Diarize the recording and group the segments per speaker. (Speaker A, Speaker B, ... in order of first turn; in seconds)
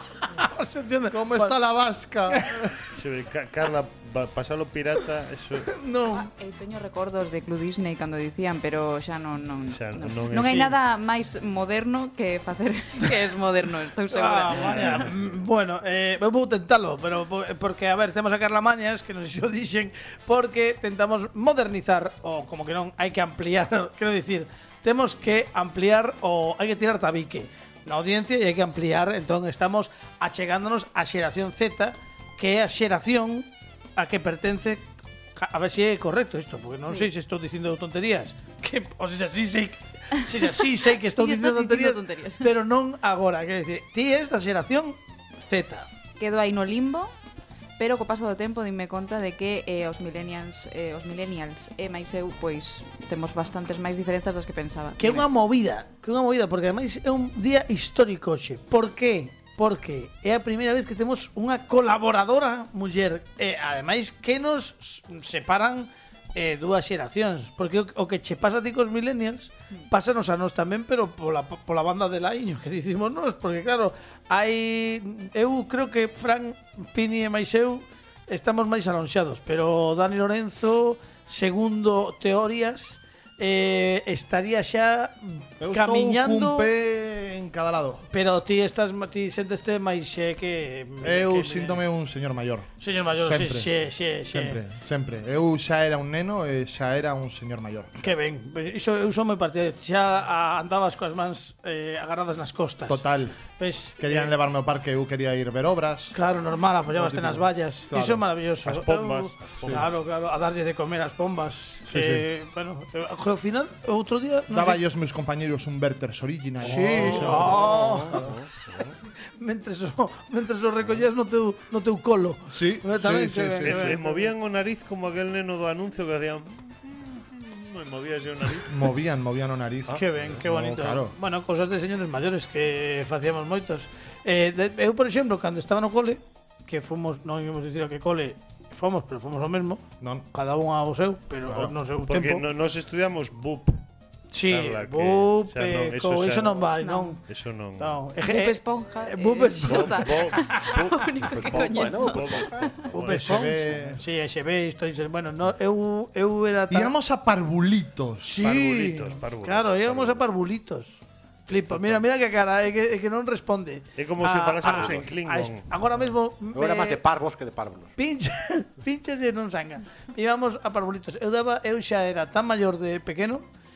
Speaker A: 0.3-1.6, 5.7-6.3, 14.1-45.9, 55.0-86.7, 88.1-91.8, 92.8-94.6, 98.0-104.3, 106.1-114.8, 116.6-118.2, 119.4-124.3, 129.9-142.4, 144.3-147.2, 147.8-150.3, 152.9-156.9, 158.2-167.0, 168.0-173.4
Speaker B: 1.1-2.8, 85.6-88.0, 91.0-93.7, 94.3-97.9, 102.9-103.4, 104.0-106.2, 106.9-108.2, 111.9-112.3, 114.5-118.3, 122.5-124.0, 128.7-131.2, 140.0-140.3, 153.1-154.0, 156.7-158.4
Speaker C: 2.9-5.8, 9.7-10.8, 14.6-15.2, 108.7-109.9, 116.6-118.9, 123.7-128.8, 129.9-130.4, 141.5-143.8, 144.5-146.7, 147.3-148.0, 149.7-153.3, 158.4-160.3, 161.7-162.0, 164.0-165.7
Speaker D: 6.1-15.1, 41.0-42.5, 46.2-47.1, 47.8-55.3, 146.8-147.2, 148.2-152.7
Speaker E: 151.3-152.8, 166.5-167.9